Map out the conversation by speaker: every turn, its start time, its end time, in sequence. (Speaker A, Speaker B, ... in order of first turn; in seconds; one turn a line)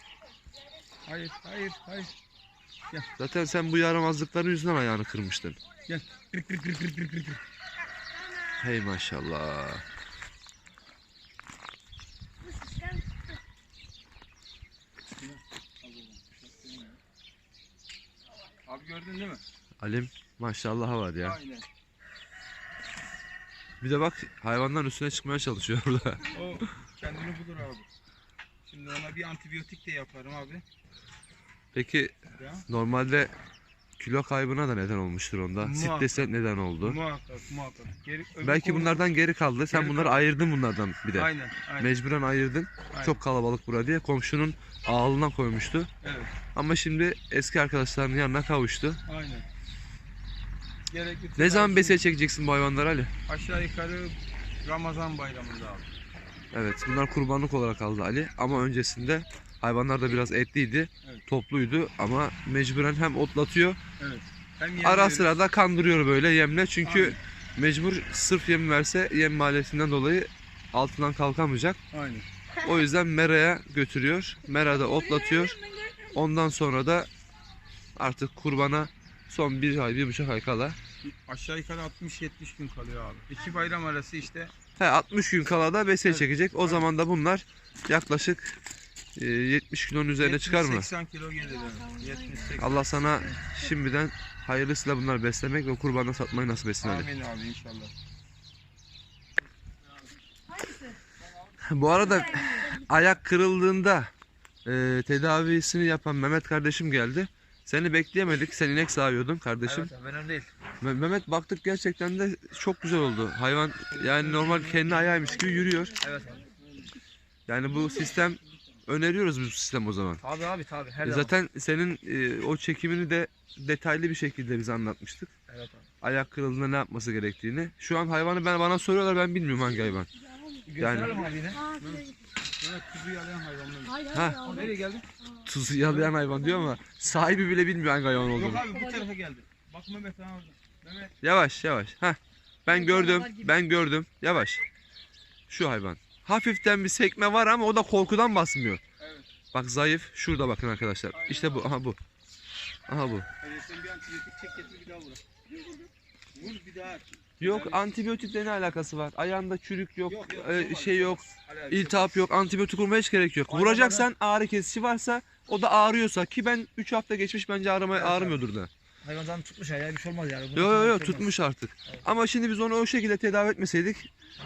Speaker A: 1.1-2.1
Speaker B: 3.2-5.6
Speaker A: 5.9-7.4
Speaker B: 8.6-9.8
Speaker A: 15.2-17.0
Speaker A: 18.7-19.4
Speaker B: 19.8-21.4
Speaker A: 21.2-21.6
Speaker B: 23.8-26.4
Speaker A: 26.3-27.9
Speaker A: 28.6-30.6
Speaker B: 31.7-32.1
Speaker A: 32.4-32.6
Speaker B: 32.7-33.3
Speaker B: 34.0-37.0
Speaker A: 35.6-36.3
Speaker A: 36.8-39.0
Speaker B: 38.4-45.9
Speaker A: 39.7-40.2
Speaker A: 41.1-41.9
Speaker A: 42.9-43.2
Speaker A: 46.0-46.4
Speaker B: 46.5-49.0
Speaker A: 49.1-49.5
Speaker A: 50.9-52.0
Speaker B: 51.4-53.1
Speaker A: 53.3-55.9
Speaker B: 56.5-63.8
Speaker A: 64.0-65.3
Speaker B: 64.8-71.8
Speaker A: 66.8-67.2
Speaker A: 71.9-72.3
Speaker B: 72.6-77.1
Speaker B: 78.0-80.8
Speaker A: 81.0-84.5
Speaker B: 84.8-88.5
Speaker A: 86.1-86.8
Speaker B: 89.2-90.9
Speaker A: 90.2-92.8
Speaker B: 92.6-97.1
Speaker A: 96.8-97.9
Speaker B: 101.6-104.1
Speaker B: 104.6-109.9
Speaker C: 109.6-110.5
Speaker B: 110.8-116.0
Speaker A: 113.9-115.5
Speaker C: 116.0-116.5
Speaker B: 117.5-120.2
Speaker C: 120.2-121.3
Speaker B: 121.0-125.3
Speaker C: 125.5-125.9
Speaker B: 126.0-130.1
Speaker A: 130.8-132.0
Speaker C: 130.8-131.3
Speaker B: 130.8-131.3
Speaker D: 131.5-132.2
Speaker A: 132.6-135.1
Speaker D: 133.8-134.7
Speaker B: 134.0-134.5
Speaker B: 135.4-138.7
Speaker A: 138.3-141.1
Speaker B: 141.2-144.6
Speaker D: 143.0-143.5
Speaker B: 145.5-148.8
Speaker A: 149.0-149.3
Speaker B: 149.5-152.0
Speaker A: 151.1-151.7
Speaker B: 152.9-153.3
Speaker A: 153.4-155.2
Speaker A: 156.3-157.8
Speaker B: 157.4-168.7
Speaker A: 160.1-162.2
Speaker C: 163.5-164.1
Speaker C: 167.9-168.4
Speaker C: 169.0-171.3
Speaker B: 170.6-174.1